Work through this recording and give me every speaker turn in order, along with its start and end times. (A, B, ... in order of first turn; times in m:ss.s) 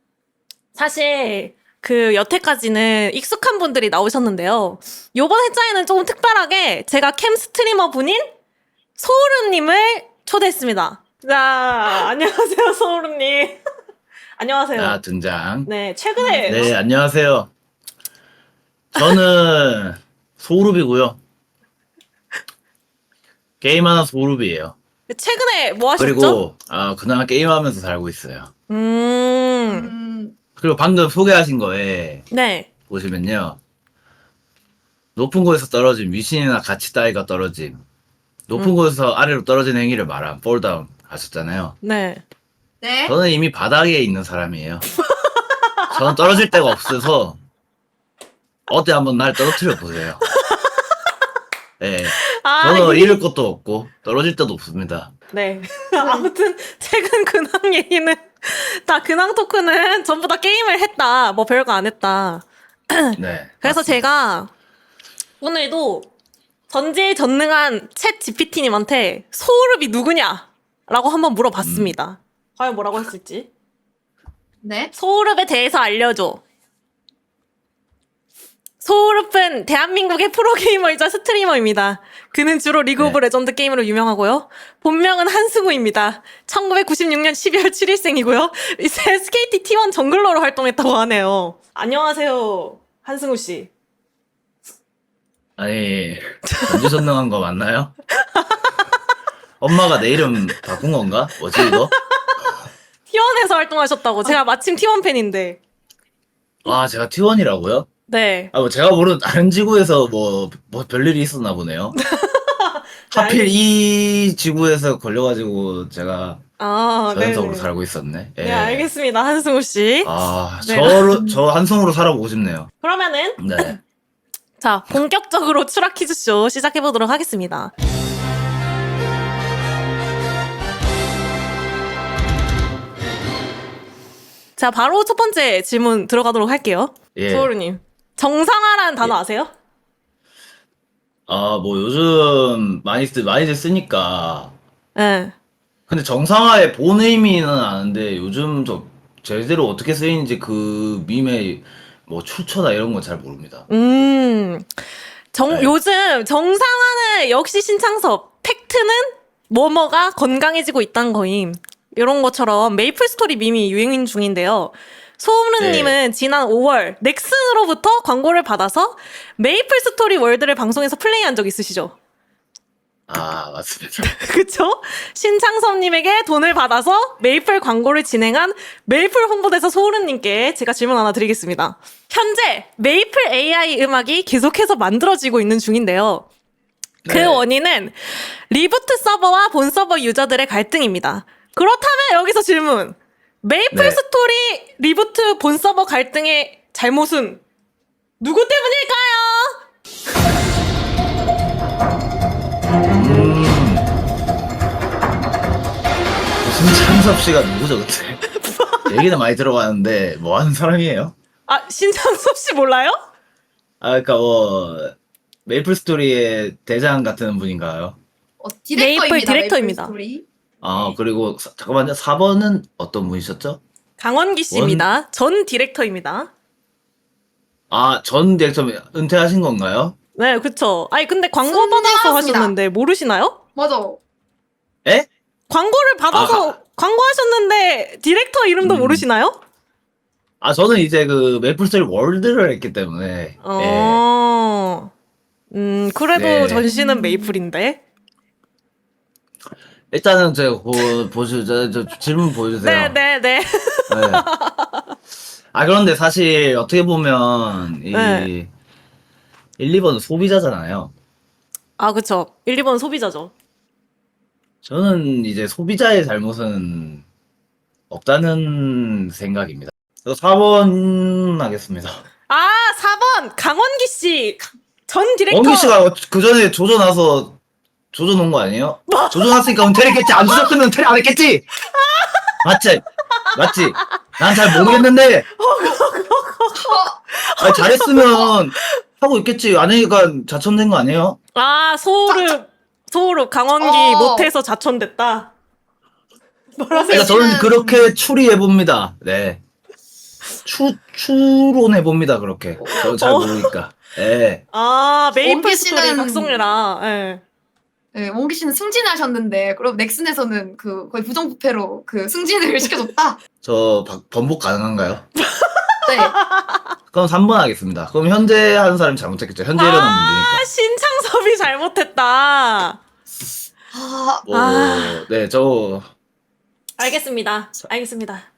0:00.7-0:08.3 A
0:09.0-0:13.6 A
0:14.4-0:15.0 A
0:14.7-0:15.7 B
0:15.6-0:16.7 A
0:16.4-0:17.5 B
0:18.9-0:21.2 B
0:23.6-0:24.8 B
0:25.1-0:26.4 A
0:26.0-0:28.5 B
0:28.7-0:29.9 A
0:29.6-0:30.3 C
0:30.6-0:32.2 B
0:32.3-0:32.7 A
0:32.9-0:33.6 B
0:35.2-0:37.8 B
0:38.5-0:41.7 B
0:41.8-0:42.2 A
0:42.8-0:43.1 C
0:43.0-0:44.9 B
0:45.0-0:46.2 A
0:45.9-0:47.4 B
0:48.7-0:50.2 B
0:50.2-0:50.8 A
0:51.8-0:55.1 B
0:52.1-0:53.2 A
0:55.3-1:04.5 A
0:56.0-0:56.3 C
1:03.2-1:04.1 B
1:05.4-1:06.1 A
1:06.7-1:13.5 A
1:11.6-1:11.9 B
1:14.6-1:14.9 C
1:14.9-1:16.4 A
1:18.8-1:33.7 A
1:35.6-1:37.9 B
1:36.4-1:37.0 A
1:38.2-1:38.7 A
1:39.6-1:41.9 B
1:40.3-1:40.6 A
1:41.5-1:42.5 A
1:43.1-1:45.6 A
1:46.6-1:47.9 B
1:48.1-1:48.5 A
1:48.5-1:52.0 B
1:51.9-1:53.5 A
1:53.1-1:56.4 B
1:56.6-1:57.7 A
1:57.1-1:58.9 B
1:58.4-2:01.4 A
2:00.0-2:02.7 B
2:02.8-2:03.7 A
2:03.4-2:03.8 B
2:04.6-2:07.7 A
2:14.6-2:19.5 A
2:17.1-2:17.5 B
2:21.3-2:24.5 B
2:24.9-2:25.3 A
2:25.9-2:33.7 B
2:33.7-2:34.7 A
2:35.3-2:51.9 A
2:45.6-2:46.0 B
2:53.1-2:54.1 B
2:54.0-3:06.3 A
3:07.0-3:07.4 B
3:07.1-3:17.4 A
3:13.7-3:14.0 B
3:18.2-3:19.6 A
3:23.0-3:23.9 B
3:26.4-3:28.2 B
3:28.2-3:29.0 A
3:28.9-3:31.1 B
3:31.5-3:33.0 A
3:33.8-3:34.9 B
3:35.4-3:38.0 B
3:38.4-3:40.2 C
3:38.7-3:39.9 A
3:40.6-3:43.6 B
3:44.0-3:46.3 A
3:44.5-3:44.9 B
3:47.7-3:49.9 B
3:50.1-3:53.4 A
3:51.4-3:52.5 C
3:53.6-3:54.0 C
3:55.5-3:59.4 A
3:56.1-3:56.6 B
3:58.6-3:59.0 B
4:00.4-4:04.0 B
4:03.4-4:04.9 A
4:05.5-4:07.8 A
4:06.1-4:06.6 B
4:06.7-4:07.3 C
4:09.9-4:13.0 B
4:12.5-4:14.9 A
4:13.9-4:14.3 B
4:15.5-4:18.5 B
4:17.9-4:18.3 A
4:19.6-4:20.9 B
4:21.8-4:23.3 A
4:24.6-4:27.0 B
4:27.9-4:32.0 B
4:32.3-4:35.8 A
4:35.3-4:37.4 B
4:37.9-4:41.4 B
4:38.9-4:40.5 A
4:41.7-4:42.4 A
4:42.4-4:45.3 B
4:43.3-4:43.7 A
4:44.3-4:48.8 A
4:46.6-4:47.0 C
4:47.4-4:51.2 B
4:51.3-4:55.3 A
4:52.1-4:52.3 C
4:53.6-4:54.3 C
4:56.6-4:57.3 A
4:56.7-4:57.9 C
4:56.9-4:59.4 B
5:00.4-5:04.4 B
5:02.6-5:02.9 C
5:02.7-5:03.5 A
5:04.5-5:07.2 A
5:05.2-5:06.4 C
5:07.9-5:13.2 C
5:13.4-5:15.1 B
5:15.2-5:16.7 A
5:15.9-5:16.1 C
5:16.9-5:20.5 B
5:19.5-5:22.8 A
5:23.7-5:24.3 C
5:24.2-5:25.9 B
5:24.3-5:25.0 A
5:26.8-5:28.3 A